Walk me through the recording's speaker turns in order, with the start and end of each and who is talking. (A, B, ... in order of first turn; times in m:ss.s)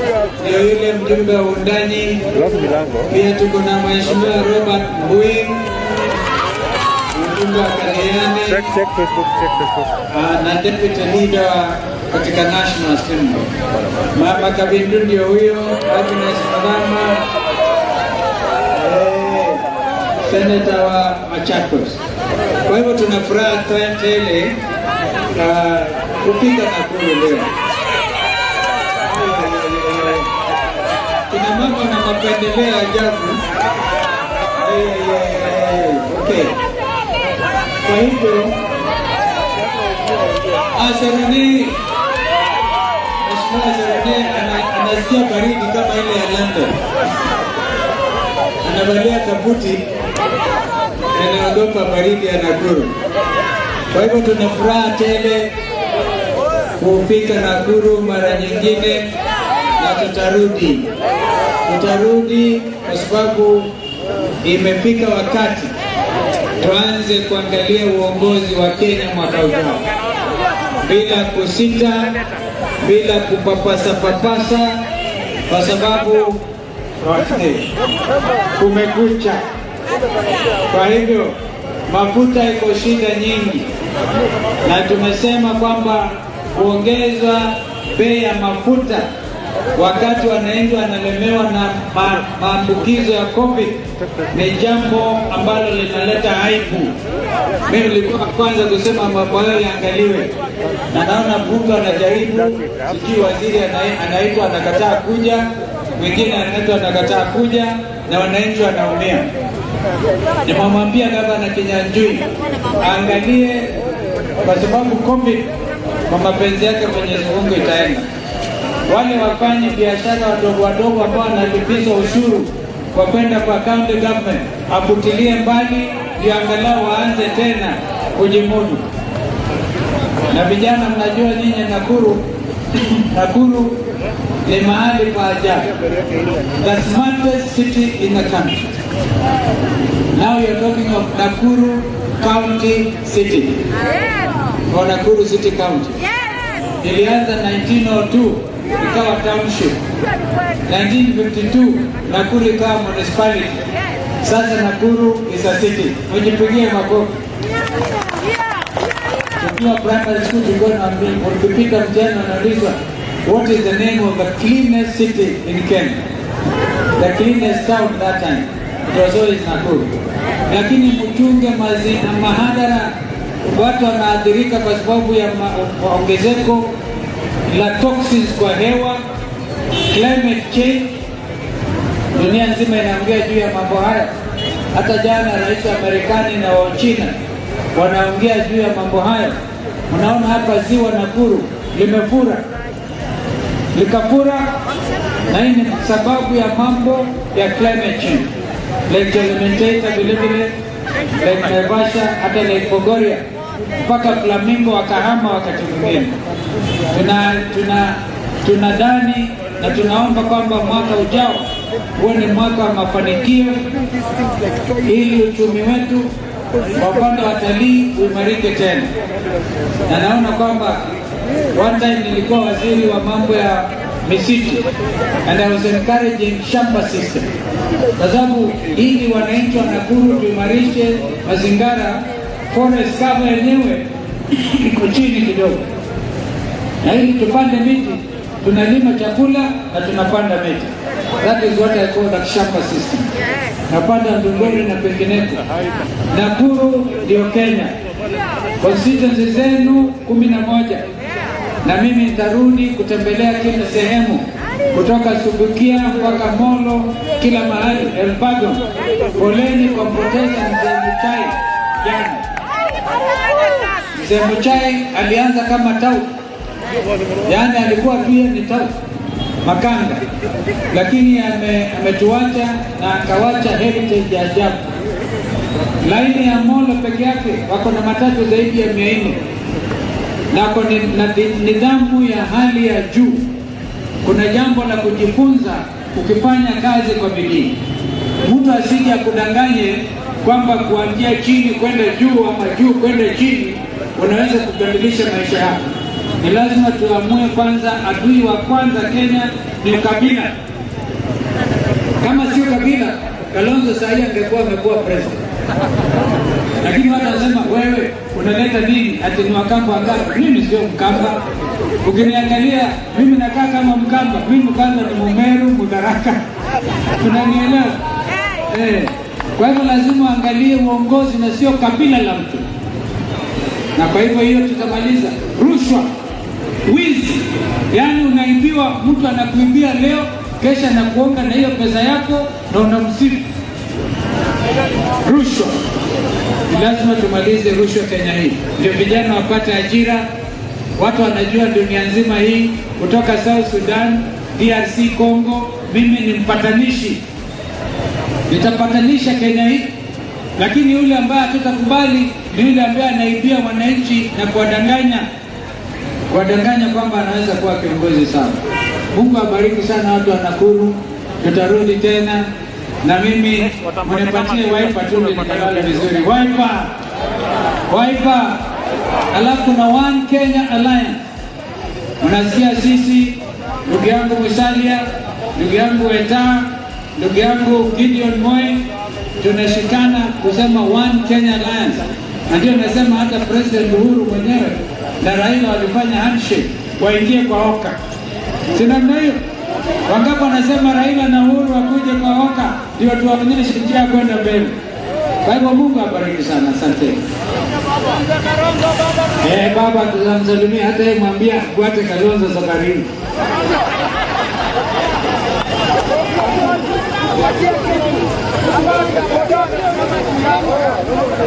0:00.4-0:02.3 A
0:03.0-0:05.7 A
0:07.2-0:08.8 A
0:10.1-0:13.5 A
0:14.1-0:17.2 A
0:18.7-0:19.6 A
0:20.2-0:22.0 A
0:22.7-0:24.6 A
0:25.3-0:27.5 A
0:29.1-0:30.3 A
0:31.3-0:33.4 A
0:34.6-0:36.6 A
0:37.8-0:38.6 A
0:40.8-0:41.8 A
0:43.2-0:46.8 A
0:48.6-0:49.8 A
0:51.1-0:52.9 A
0:53.9-0:55.5 A
0:56.8-0:59.1 A
0:59.8-1:00.9 A
1:01.6-1:03.7 A
1:04.4-1:05.8 A
1:06.6-1:09.8 A
1:10.8-1:12.1 A
1:12.8-1:14.8 A
1:15.5-1:16.4 A
1:17.0-1:17.7 A
1:18.6-1:19.4 A
1:20.7-1:21.4 A
1:21.9-1:23.7 A
1:24.6-1:29.1 A
1:29.8-1:33.8 A
1:34.3-1:37.0 A
1:37.7-1:40.3 A
1:40.9-1:49.3 A
1:50.4-1:52.3 A
1:52.8-1:53.7 A
1:54.4-1:55.5 A
1:56.1-1:58.1 A
1:58.9-2:08.8 A
2:10.3-2:13.8 A
2:14.4-2:15.7 A
2:16.6-2:18.7 A
2:20.1-2:23.7 A
2:24.7-2:26.0 A
2:26.8-2:29.8 A
2:30.7-2:33.6 A
2:34.2-2:37.1 A
2:39.4-2:46.0 A
2:47.0-2:52.9 A
2:53.4-2:56.7 A
2:57.5-2:59.0 A
2:59.9-3:00.9 A
3:02.1-3:04.1 A
3:04.7-3:07.1 A
3:07.7-3:09.4 A
3:09.9-3:12.4 A
3:13.7-3:14.5 A
3:15.3-3:18.3 A
3:18.9-3:20.5 A
3:21.2-3:23.2 A
3:23.8-3:26.2 A
3:26.9-3:33.6 A
3:34.8-3:36.1 A
3:36.7-3:38.9 A
3:39.9-3:40.9 A
3:41.5-3:44.6 A
3:45.2-3:47.3 A
3:48.0-3:55.6 A
3:56.8-4:03.1 A
4:03.7-4:05.4 A
4:06.1-4:07.7 A
4:08.6-4:10.9 A
4:11.6-4:18.6 A
4:19.2-4:22.2 A
4:24.0-4:26.1 A
4:27.3-4:28.7 A
4:29.4-4:30.0 A
4:30.7-4:34.6 A
4:35.8-4:39.2 A
4:40.3-4:43.3 A
4:44.0-4:47.6 A
4:48.2-4:55.6 A
4:56.2-5:00.4 A
5:02.0-5:05.2 A
5:06.6-5:11.2 A
5:11.8-5:16.2 A
5:17.0-5:17.8 A
5:18.5-5:22.4 A
5:23.8-5:25.9 A
5:26.6-5:33.3 A
5:35.0-5:35.6 A
5:36.5-5:40.1 A
5:40.8-5:47.0 A
5:48.3-5:49.7 A
5:50.4-5:55.1 A
5:56.1-5:58.4 A
5:58.9-6:02.3 A
6:02.8-6:06.7 A
6:07.7-6:08.5 A
6:09.1-6:11.0 A
6:12.0-6:18.7 A
6:19.2-6:27.8 A
6:28.5-6:29.2 A
6:29.9-6:34.6 A
6:35.2-6:37.0 A
6:39.2-6:42.9 A